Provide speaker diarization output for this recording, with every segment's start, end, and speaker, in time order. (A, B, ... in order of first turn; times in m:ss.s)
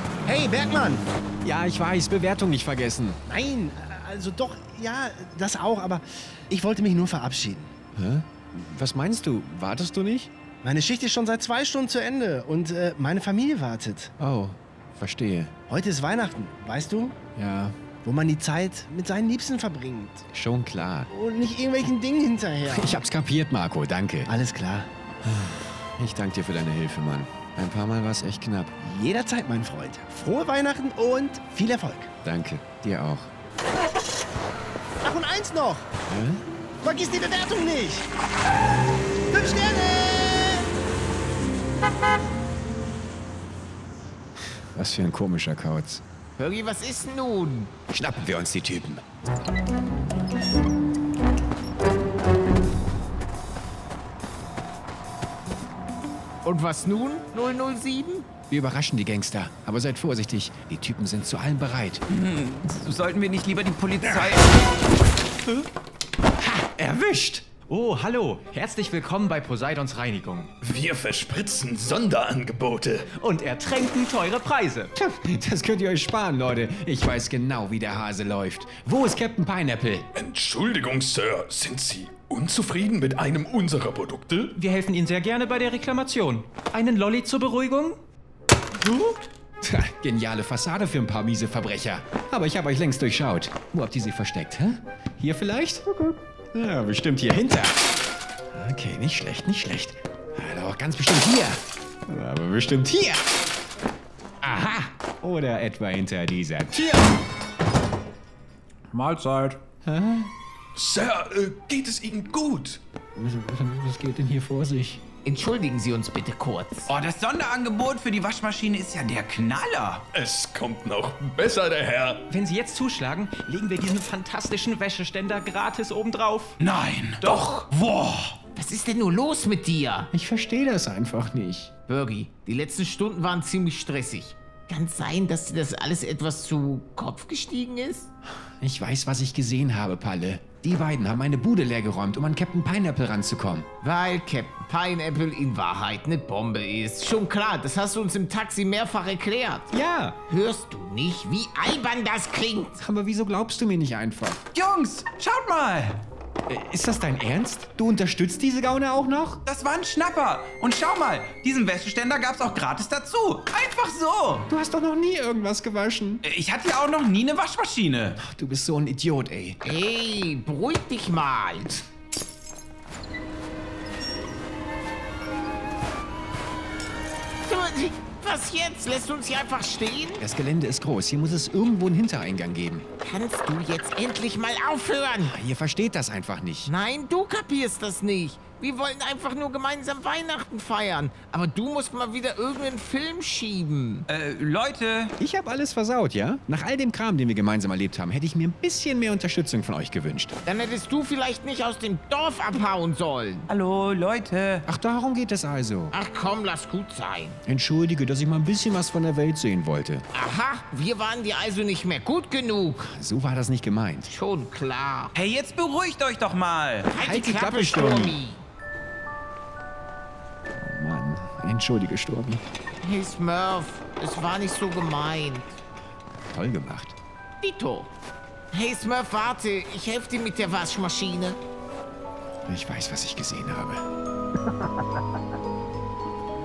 0:00.2-0:01.1 A
0:01.4-0:03.2 B
0:03.3-0:07.7 A
0:07.9-0:10.3 B
0:10.6-0:14.1 A
0:14.2-0:15.5 B
0:15.7-0:17.1 A
0:17.4-0:17.8 B
0:18.0-0:20.2 A
0:20.3-0:21.1 B
0:21.1-0:23.0 A
0:22.6-0:24.3 B
0:24.2-0:24.9 A
0:25.2-0:28.8 B
0:28.8-0:32.1 A
0:32.2-0:33.3 B
0:35.0-0:35.9 A
0:36.1-0:36.4 B
0:36.8-0:38.1 A
0:39.3-0:40.7 A
0:44.7-0:46.0 B
0:46.4-0:47.7 C
0:47.9-0:49.0 B
0:56.4-0:58.3 C
0:58.5-1:02.0 B
1:02.1-1:04.5 D
1:06.4-1:07.4 B
1:07.4-1:10.5 E
1:10.6-1:13.1 F
1:13.1-1:14.9 E
1:15.0-1:20.0 B
1:20.1-1:24.6 F
1:24.6-1:28.0 E
1:29.6-1:37.8 B
1:38.5-1:43.3 B
1:44.4-1:47.1 B
1:49.8-1:50.3 B
1:50.7-1:52.8 F
1:53.2-1:55.0 B
1:55.2-1:56.9 C
1:56.9-2:00.0 D
2:00.1-2:02.3 F
2:02.3-2:06.6 E
2:06.6-2:08.4 D
2:08.5-2:10.1 C
2:10.1-2:11.7 B
2:11.9-2:18.1 C
2:18.6-2:23.7 B
2:23.8-2:29.7 C
2:29.7-2:30.2 B
2:30.3-2:32.8 C
2:32.8-2:34.4 B
2:34.5-2:36.0 D
2:36.5-2:39.4 B
2:39.4-2:44.4 D
2:44.5-2:46.2 B
2:46.2-2:48.2 D
2:48.2-2:49.6 B
2:49.6-2:51.8 C
2:57.4-3:00.2 C
3:00.2-3:02.8 B
3:03.0-3:05.4 C
3:05.2-3:06.7 B
3:06.6-3:14.0 C
3:14.1-3:15.1 D
3:15.2-3:20.3 B
3:20.4-3:23.5 C
3:23.5-3:24.6 D
3:24.6-3:25.9 B
3:25.9-3:27.4 C
3:27.4-3:30.0 B
3:30.1-3:32.9 C
3:32.8-3:34.1 B
3:34.0-3:35.1 C
3:35.1-3:36.9 D
3:36.9-3:38.4 C
3:36.9-3:38.2 B
3:40.6-3:42.4 B
3:42.8-3:45.6 C
3:46.3-3:47.0 B
3:47.4-3:47.9 C
3:48.5-3:51.4 C
3:52.4-3:53.8 B